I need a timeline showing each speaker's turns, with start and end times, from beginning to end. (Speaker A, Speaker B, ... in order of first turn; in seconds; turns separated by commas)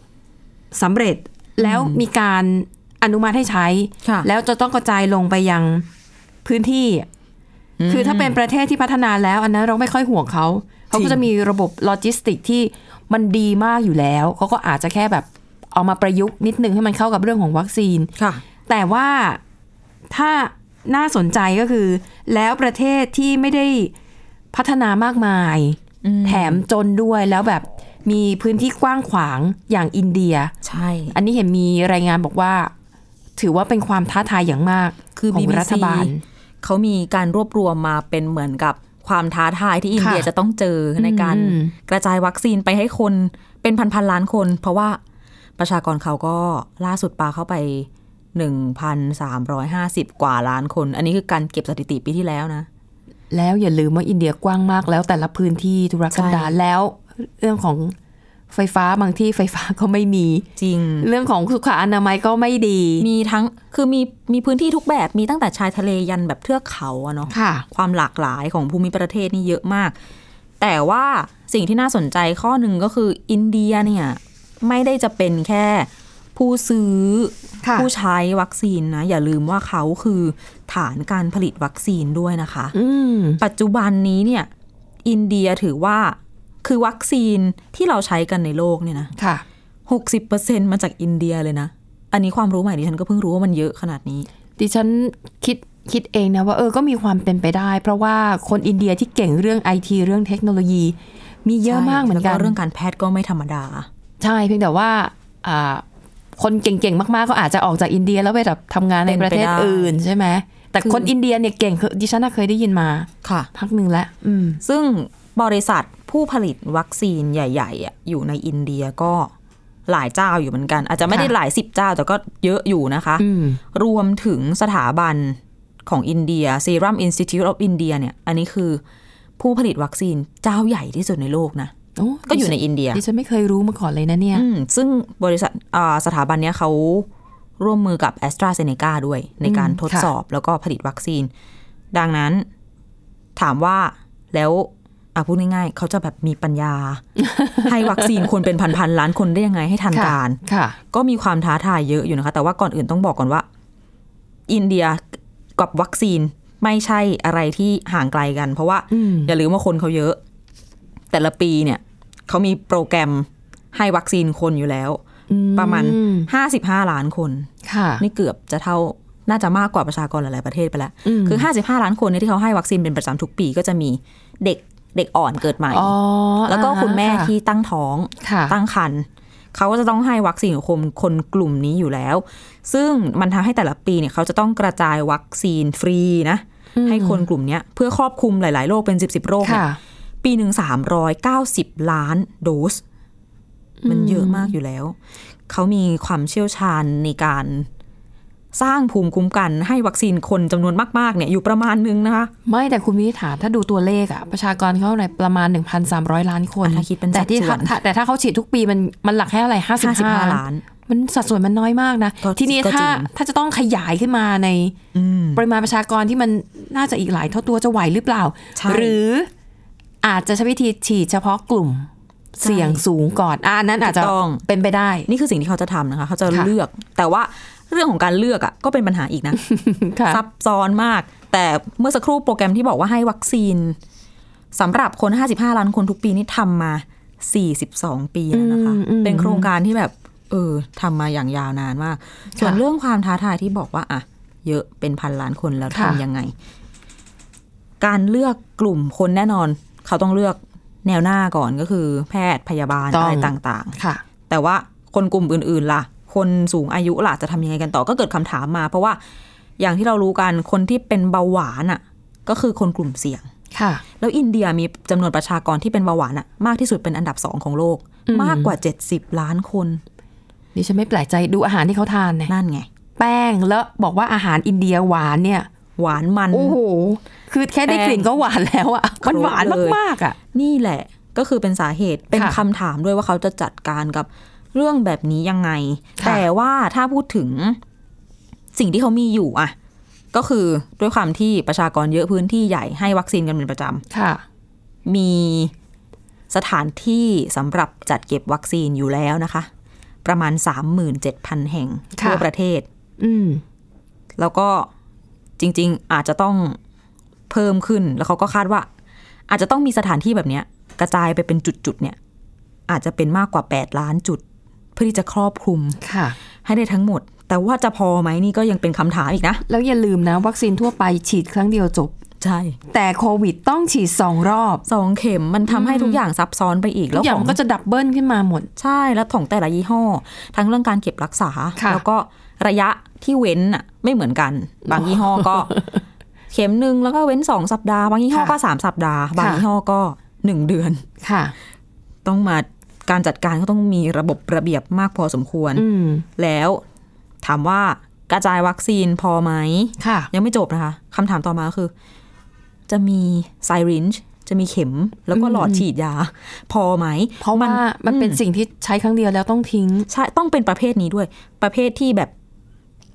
Speaker A: 0.7-5.9, Speaker B: 1.6-2.0, Speaker B: 4.0-4.3, Speaker A: 6.4-7.0, Speaker B: 7.8-8.4, Speaker A: 7.9-18.1, Speaker B: 10.9-11.2, Speaker B: 18.1-18.4, Speaker A: 18.7-19.4, Speaker A: 20.1-23.9, Speaker A: 24.5-30.5, Speaker B: 26.0-26.6, Speaker B: 30.6-31.1, Speaker A: 31.1-32.7, Speaker A: 33.4-36.2, Speaker B: 35.1-45.0, Speaker A: 40.0-40.3, Speaker A: 41.0-41.7, Speaker B: 45.6-52.7, Speaker A: 53.3-57.9, Speaker B: 56.1-56.5, Speaker A: 58.5-60.5, Speaker B: 60.6-61.1, Speaker A: 61.0-63.1, Speaker B: 63.0-69.9, Speaker A: 67.3-67.7, Speaker B: 70.6-82.7, Speaker A: 77.6-77.9, Speaker A: 82.7-83.4, Speaker B: 83.4-84.5, Speaker B: 85.0-89.1, Speaker A: 89.2-89.4, Speaker B: 89.9-94.3, Speaker A: 94.6-102.5, Speaker B: 101.6-103.9, Speaker A: 104.2-105.8, Speaker A: 106.4-114.6, Speaker B: 109.0-109.9, Speaker B: 110.8-111.1, Speaker B: 113.2-113.5, Speaker B: 114.6-119.3, Speaker B: 119.9-128.8, Speaker A: 123.2-123.6, Speaker B: 129.4-131.7, Speaker A: 132.0-134.4, Speaker B: 132.3-133.0, Speaker B: 134.3-137.1, Speaker B: 137.6-141.3, Speaker A: 139.4-140.1, Speaker B: 141.9-142.5, Speaker B: 143.4-147.0, Speaker A: 147.2-148.2, Speaker B: 147.6-150.4, Speaker A: 149.9-150.8, Speaker B: 150.9-153.4, Speaker B: 154.5-155.0, Speaker B: 155.6-160.2, Speaker A: 158.9-159.3, Speaker B: 161.1-165.0, Speaker A: 165.3-166.3, Speaker B: 165.6-175.9, Speaker A: 167.6-168.0, Speaker A: 171.0-171.4, Speaker A: 175.7-177.3, Speaker B: 176.5-189.6, Speaker A: 178.2-178.6, Speaker A: 186.8-187.2, Speaker A: 189.4-189.8, Speaker B: 190.2-192.8, Speaker A: 193.8-194.5, Speaker B: 193.9-194.9, Speaker B: 195.5-197.7, Speaker B: 198.5-202.3, Speaker A: 202.4-214.8, Speaker B: 206.6-207.7, Speaker B: 209.8-210.6, Speaker B: 212.2-213.1, Speaker B: 214.9-215.4, Speaker A: 215.3-219.3, Speaker B: 218.6-219.0, Speaker A: 220.0-225.1, Speaker B: 222.4-222.8, Speaker B: 223.8-224.4, Speaker B: 225.1-229.4, Speaker A: 229.4-230.2, Speaker B: 230.1-233.8, Speaker B: 234.5-246.3, Speaker A: 238.3-239.5, Speaker A: 242.4-242.6, Speaker A: 245.7-246.0, Speaker B: 247.8-253.8, Speaker A: 252.9-254.0, Speaker B: 254.3-259.0, Speaker B: 259.6-263.3, Speaker A: 263.5-263.8, Speaker B: 264.0-269.8, Speaker A: 268.1-268.6, Speaker A: 270.5-272.3, Speaker B: 272.3-272.7, Speaker A: 273.0-275.5, Speaker B: 275.8-276.6, Speaker A: 276.3-280.1, Speaker B: 277.7-278.1, Speaker B: 279.0-279.8, Speaker B: 280.3-287.6, Speaker A: 282.1-282.4, Speaker A: 286.0-286.2, Speaker B: 288.5-289.5, Speaker B: 290.1-293.8, Speaker A: 293.9-294.2, Speaker B: 294.9-295.5, Speaker B: 296.3-299.5, Speaker B: 300.0-302.6, Speaker A: 301.9-302.2, Speaker A: 303.0-303.4, Speaker B: 304.2-304.7, Speaker B: 305.4-306.6, Speaker B: 307.3-308.7, Speaker B: 309.3-312.0, Speaker B: 312.7-314.2, Speaker B: 314.8-315.8, Speaker A: 315.8-316.1, Speaker B: 316.4-319.4, Speaker A: 319.5-321.9, Speaker B: 322.2-322.6, Speaker A: 322.7-324.6, Speaker B: 324.6-327.4, Speaker A: 325.5-326.0, Speaker A: 326.9-328.5, Speaker B: 328.6-335.6, Speaker A: 331.6-331.8, Speaker A: 334.7-335.7, Speaker B: 336.3-340.8, Speaker A: 339.1-339.4, Speaker A: 341.0-341.4, Speaker B: 342.0-345.6, Speaker A: 345.5-346.0, Speaker B: 346.2-346.6, Speaker B: 347.2-351.7, Speaker A: 349.8-350.1, Speaker B: 352.7-358.2, Speaker A: 355.1-355.6, Speaker A: 357.2-359.9, Speaker B: 359.9-362.1